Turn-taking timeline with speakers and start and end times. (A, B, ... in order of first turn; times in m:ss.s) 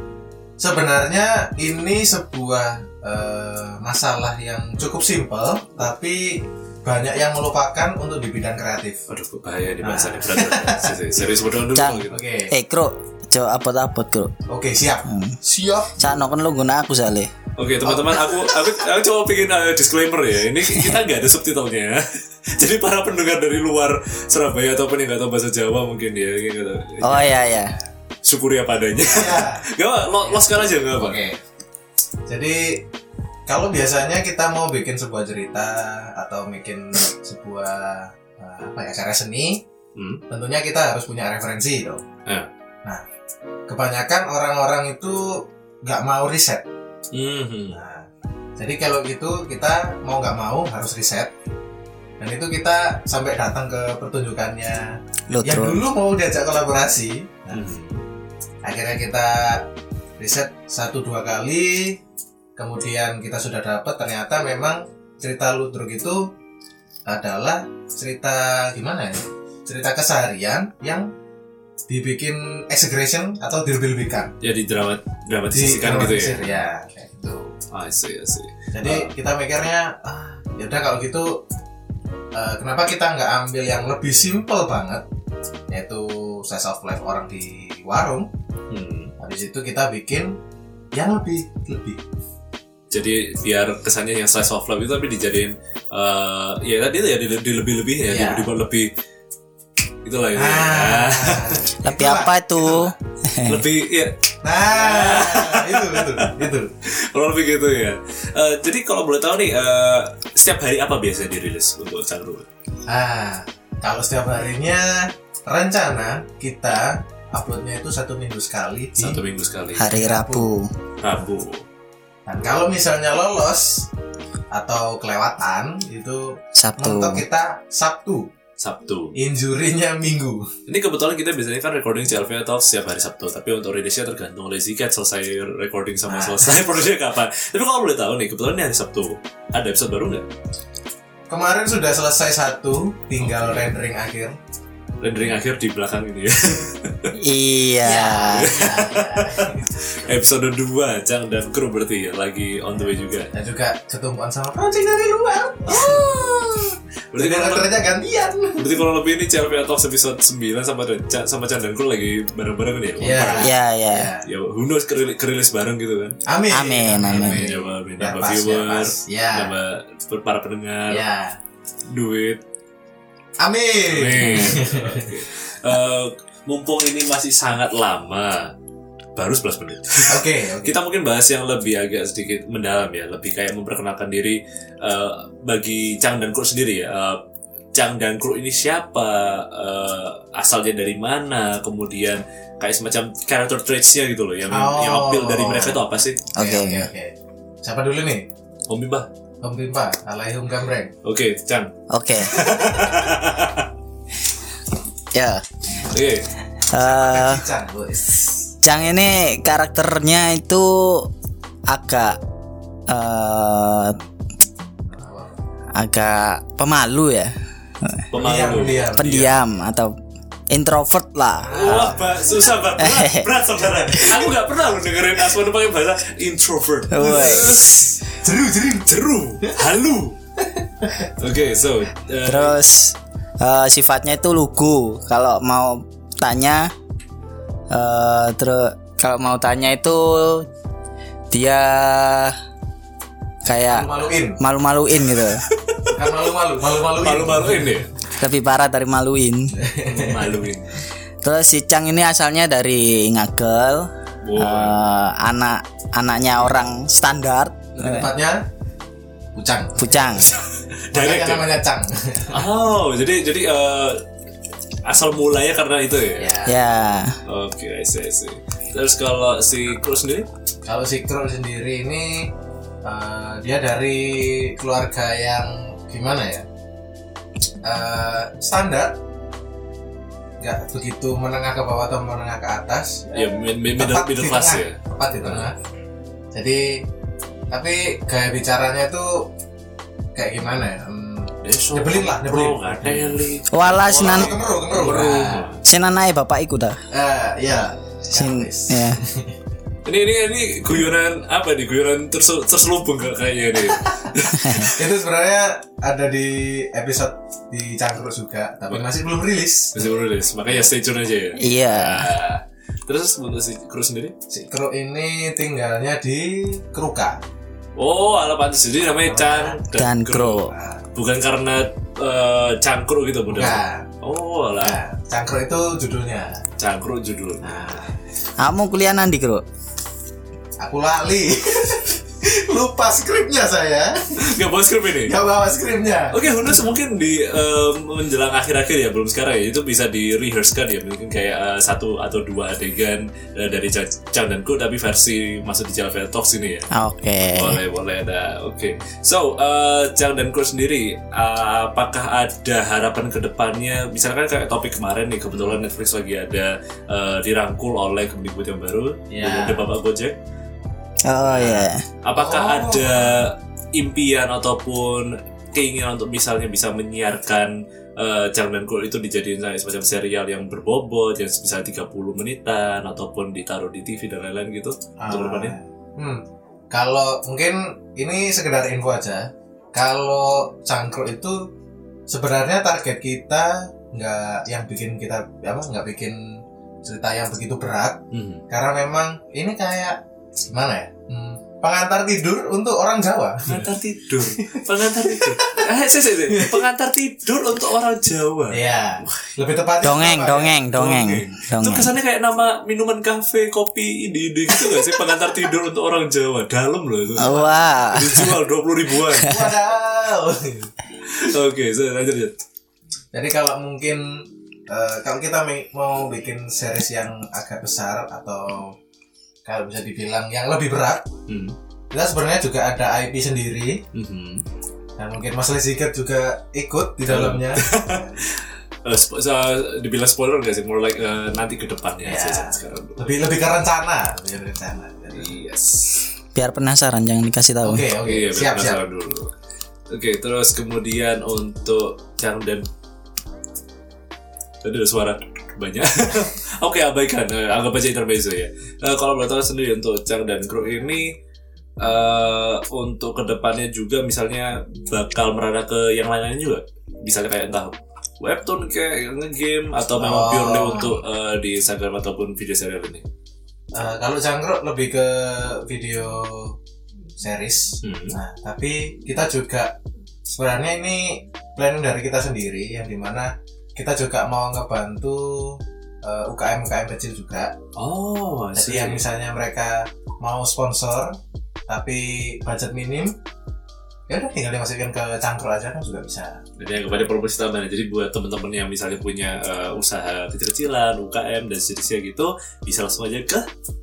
0:00.6-0:09.0 A
0:09.1-0:12.2 B
0:09.8-0:11.0 A
0:11.8-0:14.3 C
0:12.1-0:12.6 A
0:14.5-0:16.2 A
0:15.1-0:15.4 C
0:16.0-0:17.3 C
0:17.6-0:27.5 B
0:17.8-0:18.5 A
0:27.0-0:27.8 C
0:27.6-0:27.9 A
0:28.2-0:31.2 B
0:29.0-0:29.6 A
0:30.2-0:31.4 A
0:32.3-0:32.8 A
0:33.5-0:39.6 A
0:40.0-0:40.2 B
0:40.3-0:42.0 A
0:43.7-0:46.7 A
0:47.1-0:47.8 B
0:47.7-0:48.1 A
0:48.6-0:51.3 A
0:52.2-0:57.6 A
0:55.3-0:55.8 C
0:57.5-0:58.0 B
0:58.6-1:02.0 A
1:02.6-1:06.3 A
1:07.1-1:11.1 A
1:11.9-1:14.3 A
1:14.4-1:16.6 B
1:15.5-1:17.6 A
1:17.7-1:19.1 B
1:18.7-1:21.4 A
1:22.3-1:25.0 A
1:25.7-1:28.3 A
1:28.7-1:29.1 B
1:29.2-1:30.4 A
1:30.9-1:32.0 A
1:32.9-1:38.9 B
1:38.1-1:38.5 A
1:40.0-1:41.6 B
1:40.4-1:42.9 A
1:41.8-1:43.6 C
1:43.4-1:52.5 B
1:44.4-1:46.7 A
1:52.9-1:59.2 A
1:59.0-1:59.9 B
1:59.8-2:00.7 C
1:59.9-2:00.5 A
2:01.0-2:01.6 B
2:02.3-2:03.9 A
2:04.5-2:08.3 A
2:06.6-2:07.2 C
2:08.6-2:09.2 B
2:09.2-2:10.5 A
2:10.7-2:20.3 B
2:16.1-2:16.6 A
2:21.3-2:24.4 A
2:23.2-2:23.7 B
2:25.0-2:27.1 B
2:27.2-2:28.7 C
2:27.8-2:29.7 A
2:28.3-2:33.3 B
2:33.3-2:36.6 A
2:35.7-2:36.3 B
2:37.1-2:37.7 B
2:37.2-2:38.7 A
2:38.6-2:43.6 B
2:43.0-2:44.3 A
2:43.4-2:44.1 C
2:44.2-2:46.2 B
2:46.3-2:49.6 A
2:46.5-2:47.5 C
2:47.0-2:51.0 B
2:50.9-2:51.4 A
2:51.9-2:52.4 B
2:53.4-2:55.1 A
2:53.9-2:58.5 B
2:59.2-3:07.2 B
3:00.1-3:00.8 A
3:07.7-3:16.2 B
3:14.5-3:15.8 A
3:16.4-3:16.9 C
3:16.4-3:18.3 A
3:18.7-3:19.1 B
3:19.4-3:20.9 A
3:21.0-3:23.7 B
3:21.9-3:22.5 C
3:25.1-3:25.4 C
3:25.8-3:26.3 B
3:26.7-3:27.4 C
3:26.7-3:28.4 A
3:28.6-3:31.1 C
3:31.7-3:32.2 C
3:32.9-3:34.0 C
3:34.9-3:35.4 A
3:35.7-3:38.1 C
3:38.1-3:39.4 B
3:38.2-3:39.3 A
3:38.9-3:39.9 C
3:40.5-3:41.9 C
3:41.4-3:42.3 A
3:41.5-3:47.9 B
3:42.8-3:43.3 C
3:43.8-3:44.2 A
3:46.9-3:47.9 C
3:47.0-3:48.9 A
3:48.9-3:50.2 B
3:50.8-3:51.1 A
3:51.2-3:52.6 B
3:52.3-3:56.7 C
3:57.7-4:00.5 C
4:01.3-4:02.4 C
4:03.5-4:05.4 C
4:03.5-4:04.4 A
4:05.2-4:07.9 B
4:05.9-4:07.8 A
4:08.2-4:09.6 C
4:09.6-4:10.4 A
4:09.9-4:10.7 B
4:11.2-4:18.1 C
4:14.2-4:14.8 B
4:17.8-4:18.4 A
4:19.4-4:20.3 A
4:19.8-4:20.3 C
4:20.7-4:21.6 B
4:20.9-4:22.4 A
4:22.3-4:24.0 B
4:24.8-4:26.4 B
4:26.2-4:26.6 A
4:26.4-4:27.2 C
4:27.3-4:30.3 B
4:30.6-4:32.3 A
4:32.8-4:36.4 A
4:37.6-4:39.0 A
4:40.4-4:45.6 A
4:43.1-4:45.5 B
4:46.3-4:46.8 A
4:47.5-4:49.3 A
4:50.1-4:53.2 A
4:51.4-4:55.6 B
4:53.5-4:54.4 C
4:53.8-4:55.5 A
4:55.6-4:56.8 C
4:56.9-4:59.3 A
4:58.1-4:59.0 C
4:59.9-5:04.8 B
5:04.4-5:04.7 C
5:04.5-5:09.9 A
5:09.8-5:14.1 B
5:11.4-5:12.1 C
5:14.3-5:17.2 A
5:17.8-5:24.8 B
5:19.0-5:19.6 A
5:19.8-5:20.5 C
5:20.4-5:20.8 A
5:23.3-5:23.9 A
5:24.6-5:26.4 A
5:26.6-5:27.8 B
5:27.4-5:28.0 A
5:28.4-5:29.4 C
5:30.6-5:34.4 A
5:34.2-5:35.2 B
5:35.0-5:36.6 A
5:36.1-5:46.7 B
5:46.7-5:47.6 C
5:47.3-6:00.2 B
5:55.3-5:55.6 A
5:59.1-5:59.6 A
6:01.1-6:01.8 C
6:01.2-6:15.6 B
6:02.1-6:03.2 A
6:15.0-6:21.5 A
6:22.1-6:33.7 A
6:28.1-6:28.4 B
6:33.4-6:39.3 B
6:34.5-6:35.7 A
6:36.3-6:36.6 A
6:38.5-6:40.6 A
6:39.8-6:41.9 C
6:40.7-6:49.5 B
6:44.6-6:44.9 A
6:47.2-6:47.6 A
6:47.2-6:48.4 C
6:49.2-6:50.7 A
6:51.0-6:52.4 B
6:53.1-6:58.8 A
6:59.4-7:01.1 A
7:01.3-7:01.6 B
7:01.9-7:03.8 A
7:03.9-7:04.4 B
7:05.0-7:08.2 A
7:07.1-7:13.2 B
7:12.0-7:15.3 A
7:15.1-7:16.0 B
7:16.4-7:17.9 C
7:17.6-7:18.8 A
7:18.0-7:19.3 B
7:19.9-7:22.6 B
7:24.6-7:31.1 B
7:31.8-7:43.1 B
7:40.0-7:41.0 A
7:43.7-7:46.6 A
7:47.2-7:49.8 A
7:47.8-7:48.2 B
7:50.3-7:57.6 A
7:57.8-7:59.0 B
7:58.6-8:01.2 A
8:01.7-8:03.2 A
8:04.1-8:06.4 A
8:06.6-8:13.5 B